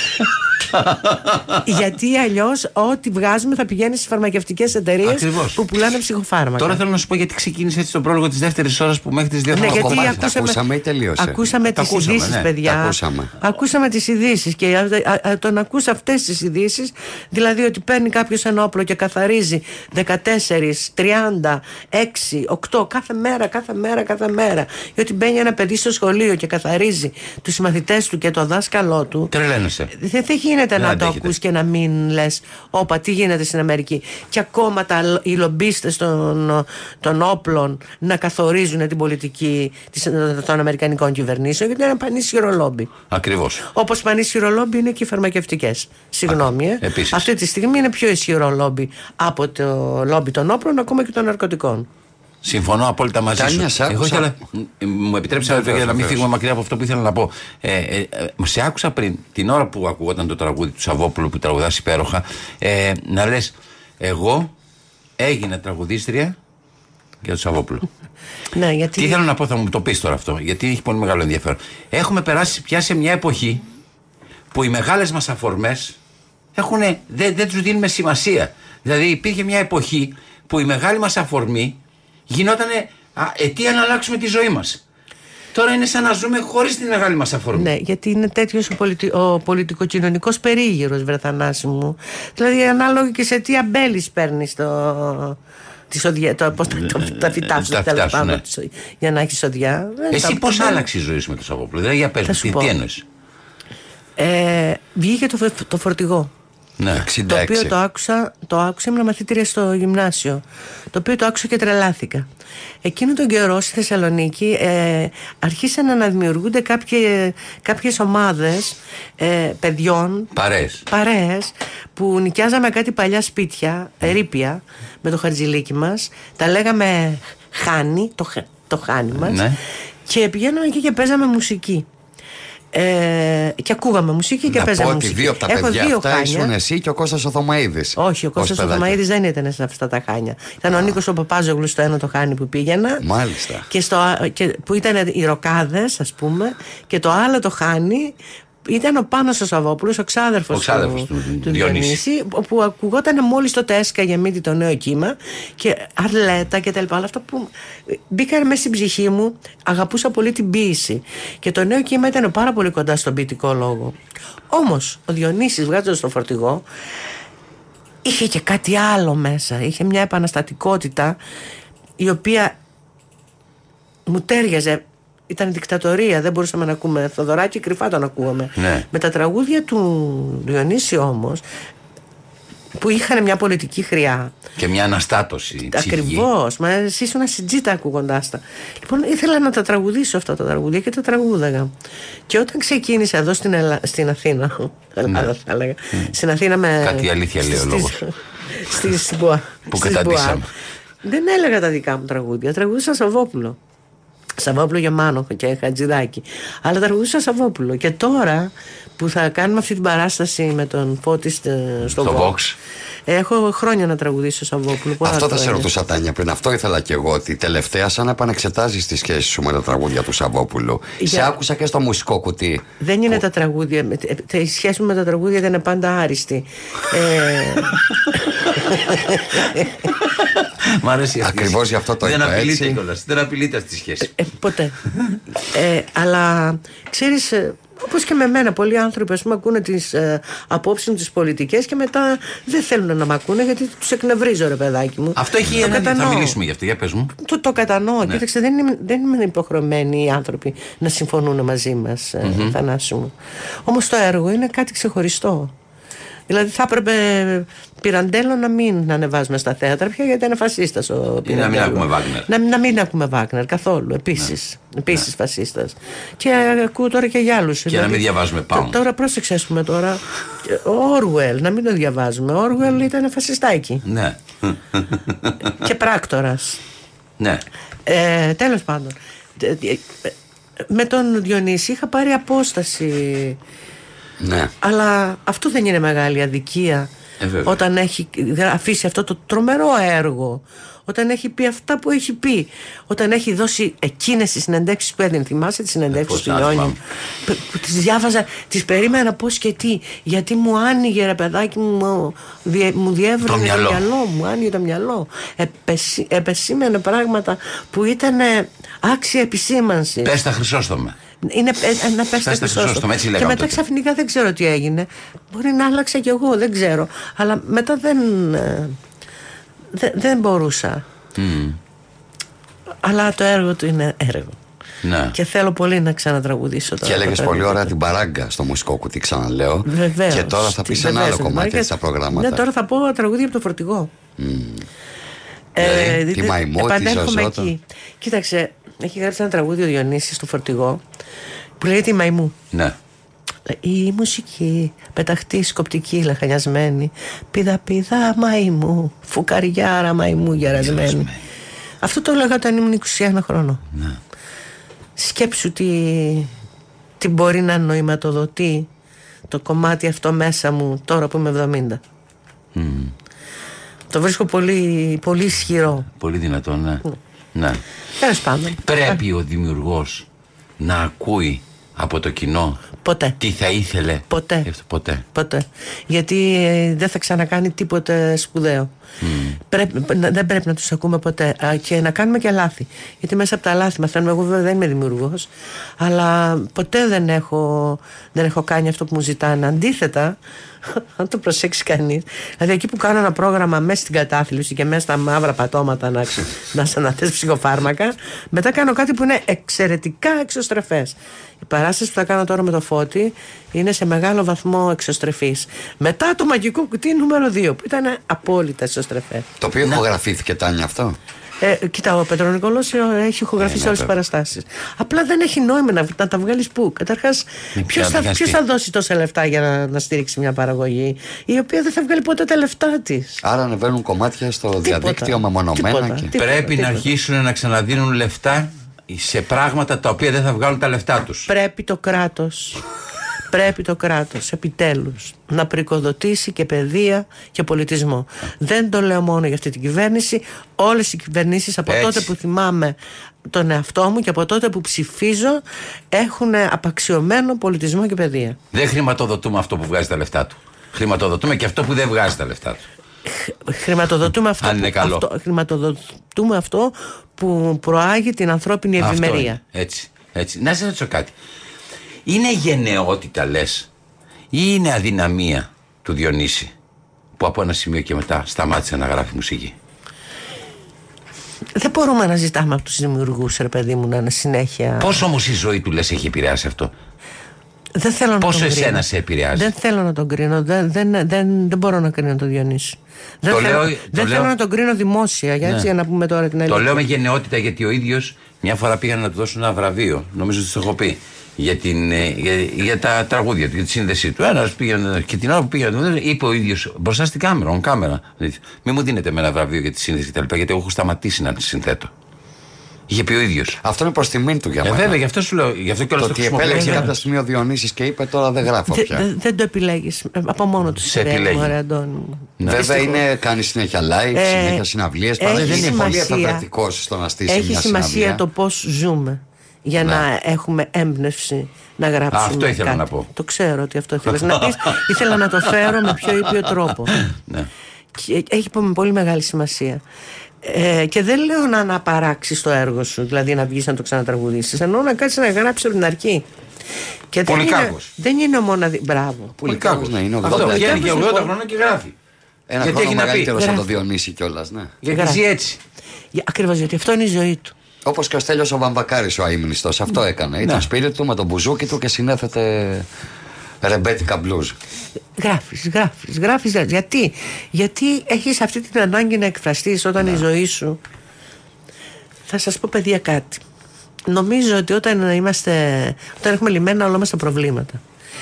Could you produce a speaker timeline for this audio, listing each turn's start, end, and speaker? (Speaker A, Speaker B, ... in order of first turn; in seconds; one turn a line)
Speaker A: 0.7-1.6
Speaker B: 1.6-6.8
Speaker A: 5.0-5.7
Speaker A: 6.6-10.3
Speaker B: 9.5-10.6
Speaker C: 9.6-11.4
Speaker B: 11.2-29.3
Speaker A: 11.6-12.6
Speaker C: 12.6-13.3
Speaker A: 29.3-29.9
Speaker B: 29.9-42.9
Speaker A: 30.8-31.3
Speaker A: 43.1-43.6
Speaker B: 43.7-51.9
Speaker A: 46.3-47.3
Speaker A: 52.4-64.5
Speaker C: 53.4-54.3
Speaker C: 55.5-56.2
Speaker A: 65.2-66.3
Speaker A: 67.2-67.8
Speaker B: 68.5-69.2
Speaker A: 69.0-73.6
Speaker A: 74.5-76.0
Speaker A: 76.5-81.8
Speaker A: 82.3-84.8
Speaker A: 85.5-87.7
Speaker B: 87.5-95.4
Speaker B: 95.9-100.8
Speaker A: 96.7-98.4
Speaker A: 100.1-103.0
Speaker B: 102.2-102.7
Speaker B: 104.2-106.3
Speaker A: 106.8-107.1
Speaker C: 106.9-107.7
Speaker B: 107.3-110.4
Speaker B: 110.9-112.3
Speaker B: 112.8-120.3
Speaker A: 120.3-120.8
Speaker B: 120.9-129.4
Speaker A: 129.1-129.6
Speaker B: 130.1-131.8
Speaker B: 132.7-136.5
Speaker C: 134.5-139.0
Speaker B: 138.0-143.0
Speaker C: 143.0-143.7
Speaker B: 143.7-148.1
Speaker B: 148.6-163.9
Speaker A: 150.5-152.0
Speaker B: 164.5-166.6
Speaker B: 168.0-171.2
Speaker B: 172.0-172.6
Speaker B: 174.1-181.4
Speaker A: 178.6-178.9
Speaker B: 182.7-184.3
Speaker A: 184.6-186.3
Speaker B: 185.7-191.7
Speaker B: 192.3-200.4
Speaker A: 196.8-198.0
Speaker A: 199.7-200.5
Speaker B: 201.0-203.6
Speaker B: 204.4-212.4
Speaker A: 211.8-212.6
Speaker B: 213.1-215.7
Speaker C: 215.0-223.2
Speaker B: 221.0-221.3
Speaker B: 222.8-229.7
Speaker A: 230.3-234.2
Speaker C: 231.2-232.8
Speaker B: 234.0-234.8
Speaker B: 235.5-246.4
Speaker A: 245.2-247.1
Speaker B: 247.2-253.1
Speaker A: 252.2-252.6
Speaker B: 253.7-255.5
Speaker B: 256.3-273.8
Speaker A: 261.2-262.3
Speaker A: 267.7-268.8
Speaker A: 273.8-275.5
Speaker B: 275.6-276.6
Speaker B: 277.9-280.1
Speaker B: 280.7-283.4
Speaker C: 284.2-284.5
Speaker B: 284.6-286.9
Speaker A: 287.2-287.6
Speaker B: 287.4-310.1
Speaker A: 295.9-296.8
Speaker A: 303.2-303.8
Speaker A: 310.0-310.9
Speaker B: 311.2-318.8
Speaker A: 312.2-313.6
Speaker B: 319.7-320.8
Speaker A: 321.2-321.6
Speaker B: 322.8-324.4
Speaker A: 324.8-325.1
Speaker B: 325.1-327.7
Speaker C: 326.8-332.4
Speaker B: 329.6-333.9
Speaker C: 334.2-334.6
Speaker B: 335.5-340.8
Speaker A: 335.6-336.0
Speaker C: 336.0-337.5
Speaker B: 341.6-342.3
Speaker B: 343.5-351.1
Speaker A: 350.4-351.2
Speaker B: 351.8-353.6
Speaker A: 353.7-354.0
Speaker B: 355.0-356.3
Speaker B: 357.0-358.7
Speaker B: 359.3-361.8
Speaker A: 362.5-362.9
Speaker B: 363.9-365.9
Speaker A: 365.9-367.6
Speaker B: 368.0-368.6
Speaker A: 368.6-370.1
Speaker A: 370.6-372.6
Speaker B: 372.8-373.1
Speaker A: 373.2-375.0
Speaker B: 374.1-374.5
Speaker B: 375.1-378.7
Speaker A: 379.0-379.4
Speaker B: 379.5-385.3
Speaker B: 385.8-390.2
Speaker B: 390.7-409.2
Speaker C: 409.4-411.0
Speaker B: 411.4-423.2
Speaker A: 413.4-413.9
Speaker A: 417.6-418.4
Speaker C: 423.2-426.1
Speaker B: 424.6-426.9
Speaker A: 426.1-431.3
Speaker B: 431.3-432.6
Speaker B: 433.3-442.8
Speaker A: 441.7-442.1
Speaker B: 443.3-448.4
Speaker A: 448.5-452.6
Speaker B: 453.2-459.4
Speaker A: 454.4-455.1
Speaker A: 458.8-461.1
Speaker A: 462.1-463.7
Speaker A: 464.3-466.5
Speaker A: 467.2-469.5
Speaker B: 471.6-475.1
Speaker A: 474.8-476.7
Speaker B: 477.8-478.8
Speaker A: 478.2-479.5
Speaker B: 479.3-486.8
Speaker A: 483.3-484.3
Speaker A: 485.4-485.7
Speaker A: 486.5-501.9
Speaker A: 502.9-503.6
Speaker C: 503.6-505.0
Speaker A: 504.6-506.9
Speaker C: 506.0-509.1
Speaker B: 506.5-506.8
Speaker B: 508.7-513.0
Speaker A: 510.8-511.5
Speaker A: 512.4-512.7
Speaker C: 512.4-518.2
Speaker B: 514.1-514.6
Speaker B: 515.2-516.5
Speaker A: 515.3-516.0
Speaker B: 517.3-526.9
Speaker C: 519.8-520.0
Speaker A: 522.1-523.1
Speaker A: 524.1-526.1
Speaker A: 527.0-527.5
Speaker B: 528.0-529.8
Speaker B: 530.4-536.2
Speaker B: 537.1-539.4
Speaker A: 537.3-537.9
Speaker C: 539.4-540.9
Speaker A: 539.4-541.9
Speaker B: 540.2-541.3
Speaker C: 542.5-544.7
Speaker A: 542.6-543.4
Speaker B: 543.4-543.6
Speaker A: 544.8-545.6
Speaker B: 544.9-545.2
Speaker B: 546.1-547.5
Speaker C: 547.8-552.9
Speaker A: 550.4-550.7
Speaker C: 553.6-554.5
Speaker B: 555.2-560.8
Speaker B: 562.3-563.4
Speaker B: 564.1-567.8